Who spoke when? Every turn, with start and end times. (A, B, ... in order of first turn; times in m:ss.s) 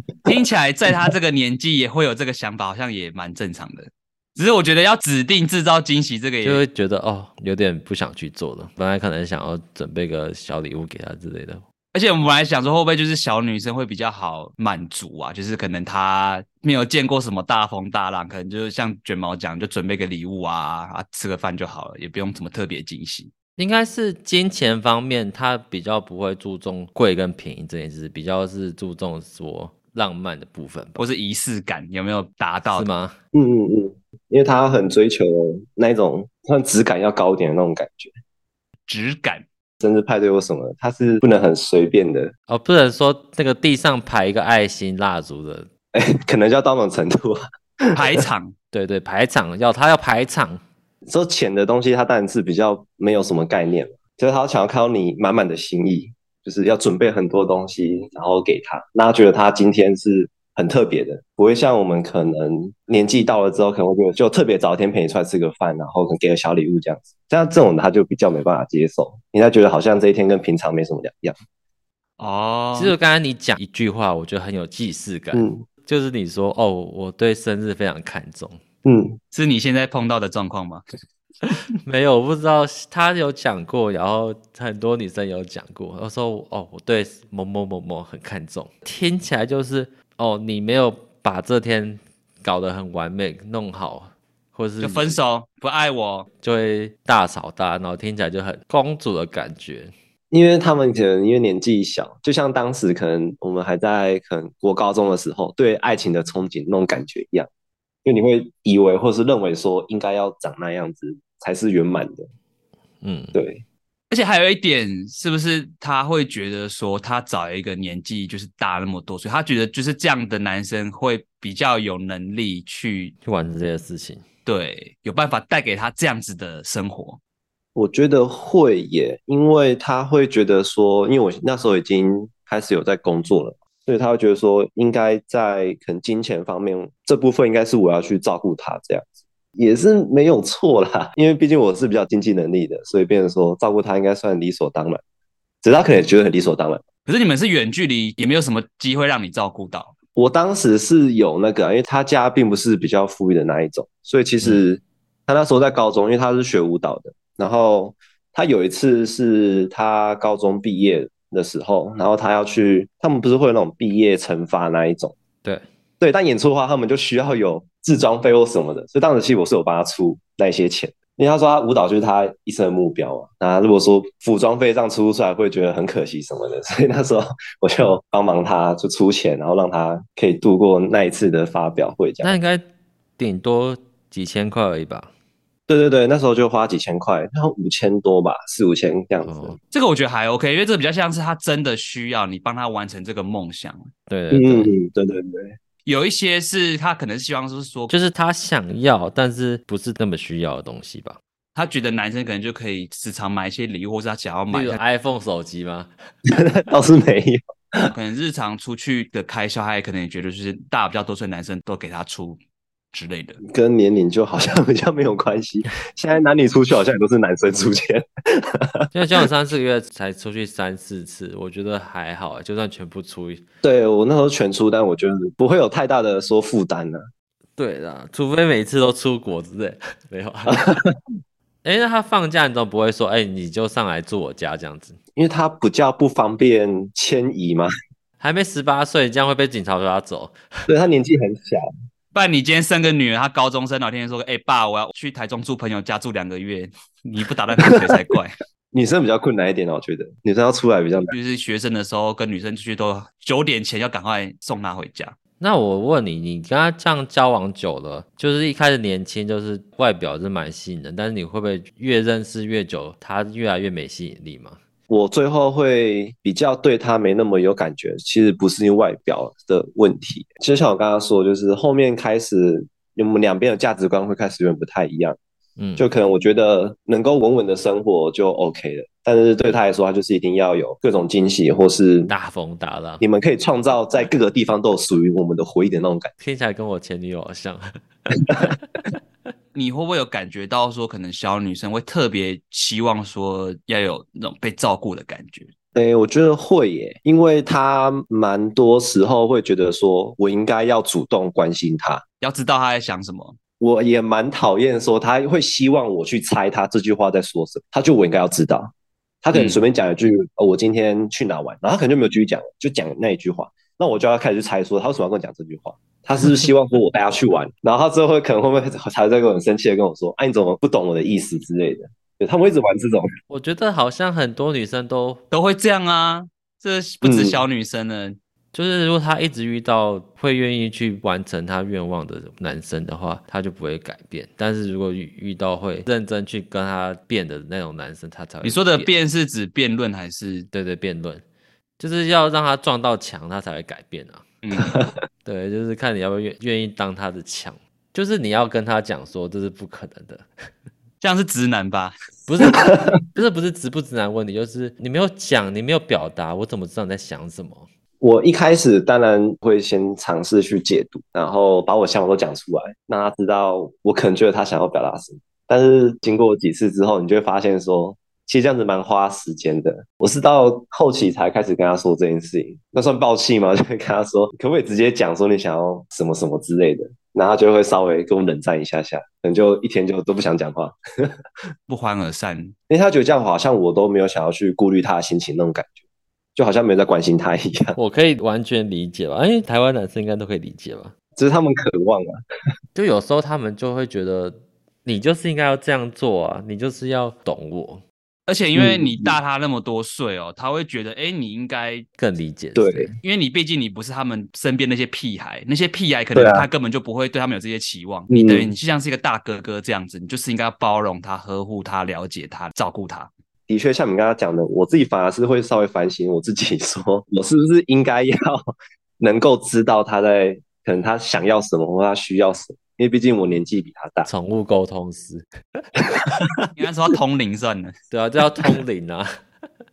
0:00.2-0:06.6 A
0:06.4-0:11.6 B
0:11.9-0:23.3 A
0:23.6-0:31.0 B
0:31.0-0:32.8 A
0:32.7-0:33.1 B
0:33.3-0:38.1 C
0:38.9-0:39.4 A
0:39.8-0:42.3 C
0:42.5-0:45.7 B
0:45.9-0:48.2 C
0:48.0-0:48.5 A
0:48.7-0:50.6 B
0:51.1-1:11.3 C
1:12.2-1:12.9 A
1:12.7-1:18.6 B
1:15.3-1:15.6 C
1:18.8-1:19.2 C
1:19.3-1:20.8 A
1:21.8-1:35.2 B
1:34.8-1:36.3 A
1:36.4-1:39.9 B
1:40.3-1:47.5 C
1:48.0-1:52.3 C
1:53.0-1:53.4 B
1:53.3-1:53.6 C
1:54.1-2:03.1 A
2:03.2-2:04.2 B
2:04.4-2:07.2 A
2:07.8-2:25.0 C
2:25.6-2:26.8 C
2:27.0-2:29.9 A
2:30.2-2:45.1 C
2:46.0-3:02.4 C
3:02.2-3:02.6 B
3:03.2-3:05.1 B
3:05.7-3:09.6 C
3:09.2-3:09.6 B
3:09.7-3:13.9 A
3:14.1-3:14.7 B
3:14.3-3:15.6 C
3:15.8-3:17.9 A
3:17.9-3:21.2 B
3:21.5-3:24.8 A
3:24.5-3:25.9 B
3:26.3-3:27.9 C
3:27.9-3:32.4 A
3:32.9-3:33.4 A
3:33.4-3:38.9 C
3:38.9-3:43.4 B
3:43.6-3:47.0 C
3:47.6-3:50.6 B
3:50.5-3:50.9 C
3:51.6-3:55.0 B
3:55.2-3:57.7 C
3:58.2-4:00.4 B
4:00.7-4:01.6 C
4:02.1-4:08.3 A
4:07.6-4:07.9 C
4:08.7-4:11.1 C
4:11.1-4:15.2 A
4:15.4-4:24.6 B
4:24.9-4:35.2 C
4:35.6-4:35.9 B
4:35.8-4:42.1 C
4:42.1-4:43.0 B
4:43.0-4:46.1 C
4:46.2-4:47.8 B
4:49.5-4:55.5 A
4:55.7-5:02.0 C
5:02.2-5:03.4 A
5:03.6-5:08.7 C
5:09.2-5:23.1 C
5:09.3-5:09.6 A
5:23.3-5:25.2 B
5:25.3-5:28.2 A
5:27.0-5:27.4 C
5:28.5-5:38.9 B
5:38.4-5:40.5 A
5:40.5-5:41.2 B
5:41.8-5:44.3 B
5:44.4-5:44.8 A
5:44.6-5:44.9 C
5:45.2-5:50.3 B
5:51.0-5:51.9 A
5:52.3-5:57.7 B
5:52.5-5:52.9 C
5:58.0-6:21.1 C
6:21.7-6:22.5 A
6:22.7-6:25.7 C
6:26.4-6:27.8 C
6:27.8-6:30.9 B
6:31.2-6:32.1 C
6:32.7-6:37.8 B
6:38.3-6:41.8 A
6:38.5-6:39.2 C
6:42.0-6:42.9 B
6:42.5-6:42.9 C
6:43.0-6:53.1 A
6:46.1-6:46.5 C
6:48.1-6:48.5 C
6:53.5-6:58.4 C
6:59.0-7:04.1 C
7:04.0-7:05.2 B
7:06.0-7:06.5 C
7:06.6-7:07.7 A
7:07.9-7:09.1 B